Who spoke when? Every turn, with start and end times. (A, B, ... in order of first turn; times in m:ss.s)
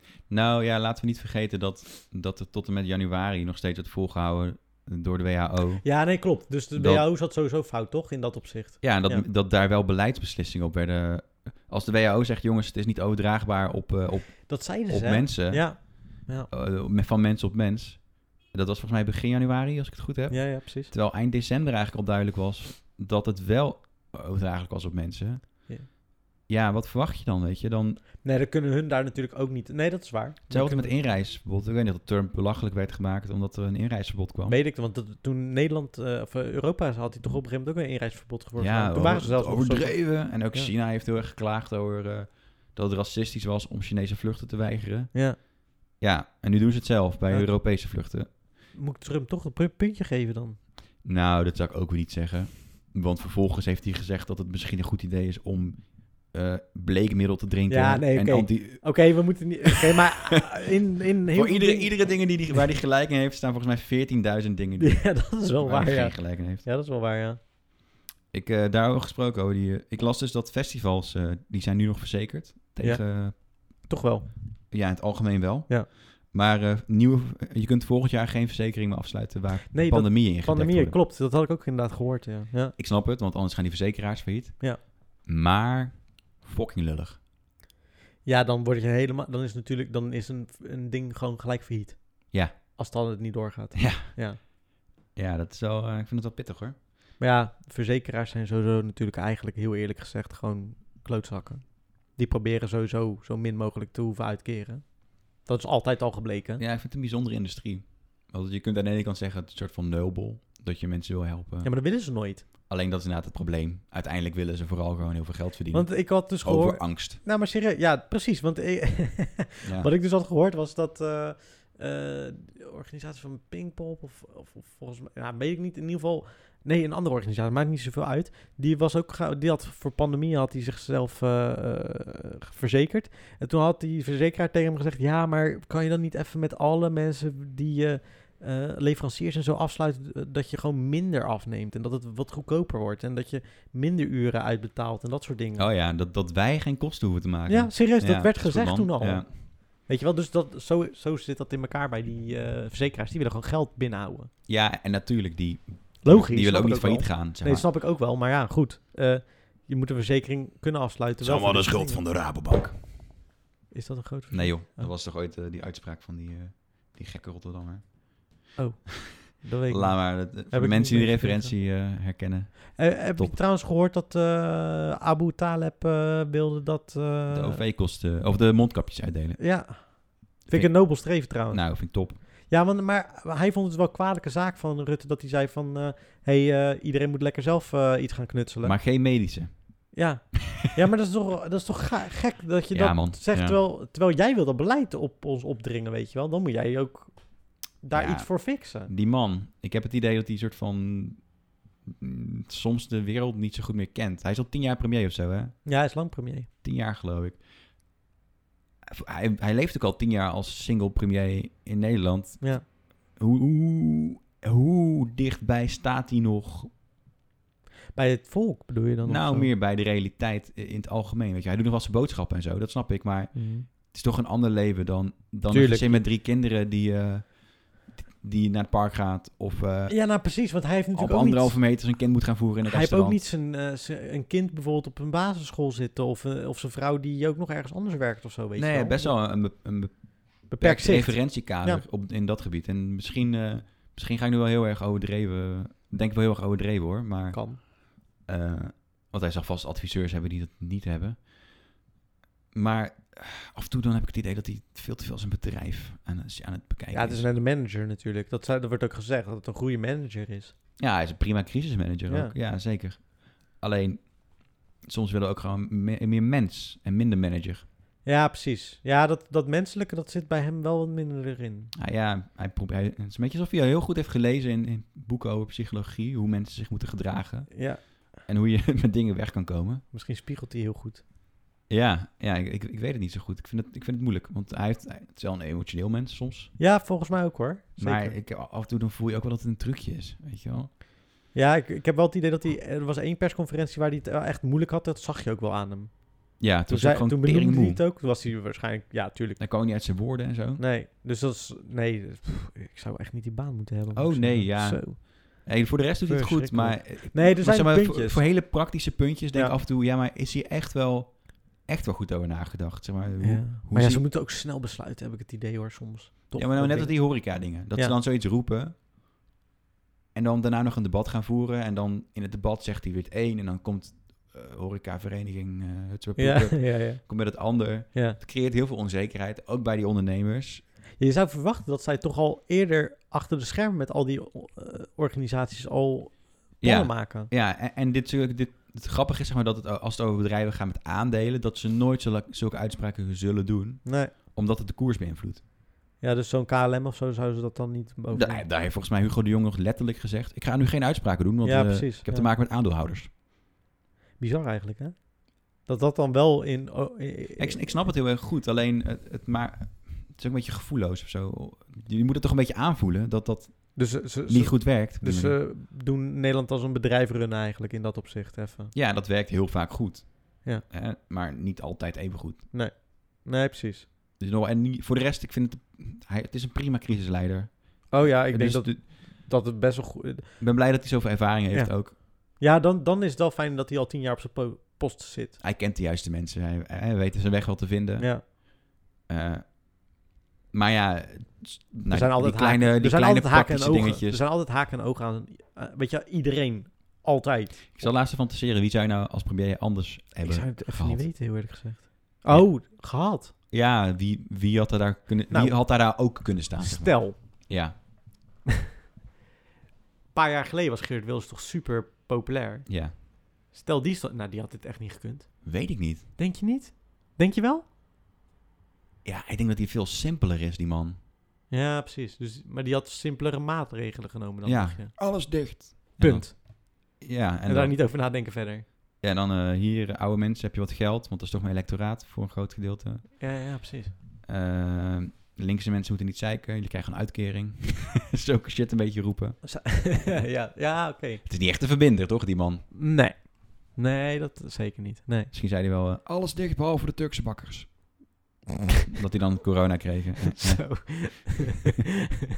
0:00.3-0:06.0 A
0:05.8-0:09.3 B
0:06.8-0:07.0 A
0:08.8-0:25.7 A
0:14.5-0:16.5 B
0:20.3-0:20.9 B
0:26.5-0:28.0 A
0:28.2-0:30.9 B
0:30.5-0:34.6 A
0:34.5-0:40.7 B
0:38.6-0:48.3 A
0:45.1-0:45.4 B
0:47.3-0:47.6 B
0:48.7-0:50.6 B
0:51.0-1:00.0 A
0:57.7-1:02.6 B
1:01.3-1:06.6 A
1:04.8-1:07.4 B
1:08.3-1:13.4 A
1:12.8-1:14.3 B
1:14.7-1:21.0 A
1:19.7-1:22.7 B
1:22.8-1:27.2 A
1:28.2-1:34.4 B
1:33.8-1:34.1 A
1:35.2-1:36.8 A
1:37.2-1:46.6 B
1:46.6-1:51.7 A
1:51.6-1:52.4 B
1:52.7-1:57.2 A
1:55.7-2:25.7 B
1:59.6-1:59.9 A
2:25.6-2:29.3 A
2:27.5-2:34.3 B
2:34.5-2:37.7 A
2:36.0-2:42.1 B
2:41.2-2:42.8 A
2:43.7-2:44.9 B
2:44.3-2:48.5 A
2:48.6-2:51.5 B
2:49.1-2:53.4 A
2:52.8-2:57.6 B
2:57.3-2:59.9 A
2:59.4-3:08.8 B
3:00.5-3:02.2 A
3:08.6-3:09.8 A
3:09.9-3:18.9 B
3:12.7-3:13.6 A
3:17.9-3:25.6 A
3:25.6-3:26.5 B
3:26.6-3:27.4 A
3:28.9-3:36.7 A
3:38.0-3:39.5 B
3:39.0-3:50.1 A
3:43.3-3:43.7 B
3:45.5-3:46.0 B
3:49.9-3:51.7 B
3:50.9-3:53.2 A
3:52.6-3:59.2 B
3:58.6-4:11.3 A
4:00.5-4:01.8 B
4:07.3-4:07.6 B
4:12.5-4:17.3 A
4:16.9-4:20.6 B
4:20.8-4:27.6 A
4:22.1-4:22.4 B
4:28.0-4:31.7 B
4:31.8-4:39.8 A
4:37.5-4:37.9 B
4:39.9-4:41.0 B
4:41.7-4:46.5 A
4:46.6-4:48.2 B
4:47.8-4:50.8 A
4:51.3-4:59.4 B
4:56.4-4:57.8 A
4:59.4-5:00.6 A
5:00.6-5:05.5 B
5:03.9-5:14.0 A
5:06.0-5:08.5 B
5:13.2-5:18.0 B
5:16.4-5:18.7 A
5:20.1-5:30.6 A
5:26.2-5:27.4 B
5:27.9-5:28.2 B
5:31.0-5:37.3 B
5:36.6-5:45.4 A
5:43.8-5:44.1 B
5:46.0-5:48.4 B
5:48.1-5:53.1 A
5:51.4-5:52.3 B
5:54.2-5:57.9 B
5:57.4-6:05.4 A
6:03.8-6:08.7 B
6:08.7-6:12.5 A
6:12.5-6:13.9 B
6:14.2-6:18.8 A
6:17.9-6:20.4 B
6:20.4-6:22.0 A
6:21.5-6:25.4 B
6:25.4-6:28.4 A
6:28.0-6:28.2 B
6:29.1-6:29.9 A
6:30.5-6:34.2 A
6:31.9-6:37.9 B
6:37.8-6:41.1 A
6:40.2-6:43.3 B
6:42.3-6:42.6 A
6:43.5-6:47.8 A
6:45.3-6:47.5 B
6:50.1-6:57.6 B
6:52.7-6:53.0 A
6:55.4-6:56.1 A
6:59.0-7:01.0 A
7:01.5-7:05.4 B
7:04.4-7:07.8 A
7:06.0-7:08.7 B
7:09.0-7:13.1 A
7:13.2-7:14.0 B
7:14.2-7:20.2 A
7:19.4-7:21.2 B
7:21.2-7:22.7 A
7:22.7-7:25.3 B
7:25.3-7:27.8 A
7:28.9-7:31.2 A
7:30.3-7:31.8 B